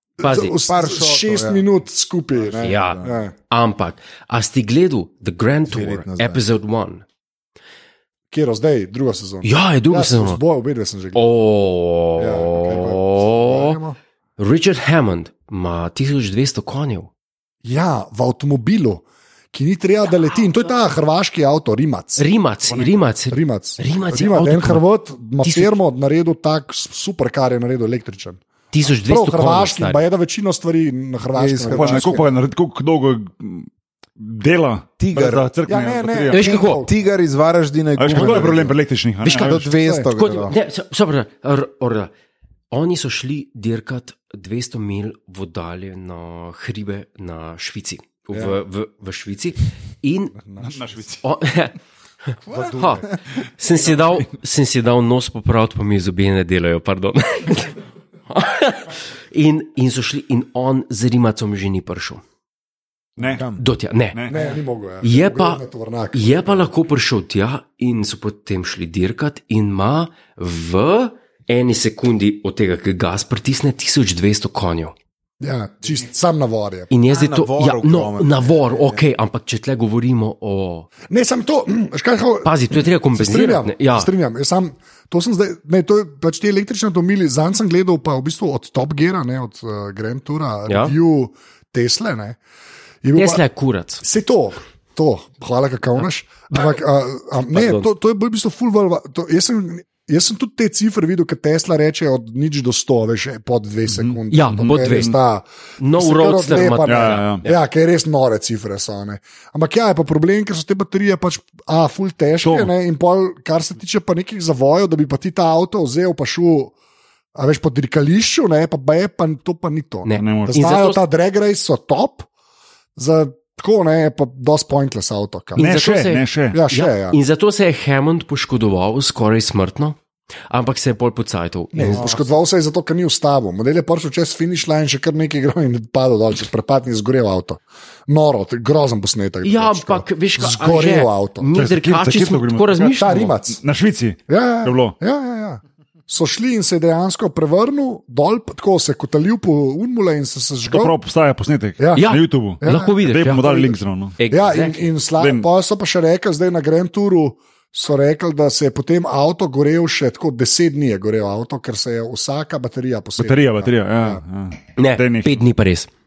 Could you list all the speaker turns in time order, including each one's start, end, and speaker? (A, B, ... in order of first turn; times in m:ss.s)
0:00.2-0:03.3 A
0:00.2-0:00.6 B
0:00.6-0:01.6 C
0:02.4-0:03.2 C
0:02.6-0:07.0 B
0:05.7-0:06.4 C
0:08.3-0:11.2 A
0:09.4-0:10.4 B
0:11.2-0:13.8 B
0:12.2-0:14.0 A
0:14.4-0:17.1 B
0:17.6-0:22.3 A
0:22.2-0:24.8 B
0:22.7-0:23.0 D
0:23.3-0:28.4 A
0:25.4-0:25.8 B
0:28.7-0:30.0 B
0:29.1-0:32.2 A
0:31.4-0:32.3 C
0:31.7-0:36.6 D
0:35.0-0:35.5 C
0:35.7-0:36.9 A
0:36.3-0:36.8 B
0:36.6-0:38.8 C
0:38.0-0:39.6 D
0:38.2-0:38.5 A
0:39.2-0:42.1 B
0:39.3-0:40.6 C
0:39.6-0:40.1 A
0:42.7-0:50.4 B
0:50.4-0:50.9 A
0:50.6-0:51.2 D
0:51.2-0:51.8 B
0:52.3-0:53.0 B
0:52.5-0:53.1 A
0:53.6-0:57.8 B
0:53.7-0:54.3 D
0:58.3-1:02.2 B
1:03.2-1:03.4 D
1:03.2-1:03.6 C
1:03.6-1:04.4 B
1:04.1-1:04.5 D
1:04.3-1:06.7 A
1:05.0-1:05.6 B
1:06.1-1:15.0 B
1:15.4-1:16.9 A
1:16.9-1:20.9 B
1:17.1-1:19.0 C
1:21.1-1:32.4 A
1:22.4-1:24.1 B
1:30.7-1:30.9 B
1:33.0-1:33.4 A
1:33.2-1:34.0 B
1:34.0-1:56.7 A
1:37.5-1:37.9 B
1:43.9-1:45.1 D
1:44.3-1:45.2 B
1:45.8-1:47.6 B
1:46.8-1:47.5 D
1:52.4-1:52.7 D
1:57.4-2:02.3 A
2:00.0-2:01.0 B
2:00.2-2:00.6 D
2:03.0-2:05.6 A
2:05.6-2:10.0 B
2:05.6-2:06.6 D
2:06.5-2:07.2 A
2:10.5-2:12.2 B
2:11.7-2:21.5 A
2:19.4-2:23.4 B
2:21.5-2:25.0 D
2:23.0-2:23.6 A
2:24.3-2:30.9 A
2:30.7-2:34.2 D
2:31.8-2:33.0 A
2:32.0-2:34.9 B
2:34.3-2:44.2 A
2:35.2-2:35.5 D
2:43.2-2:45.4 D
2:44.8-2:45.9 B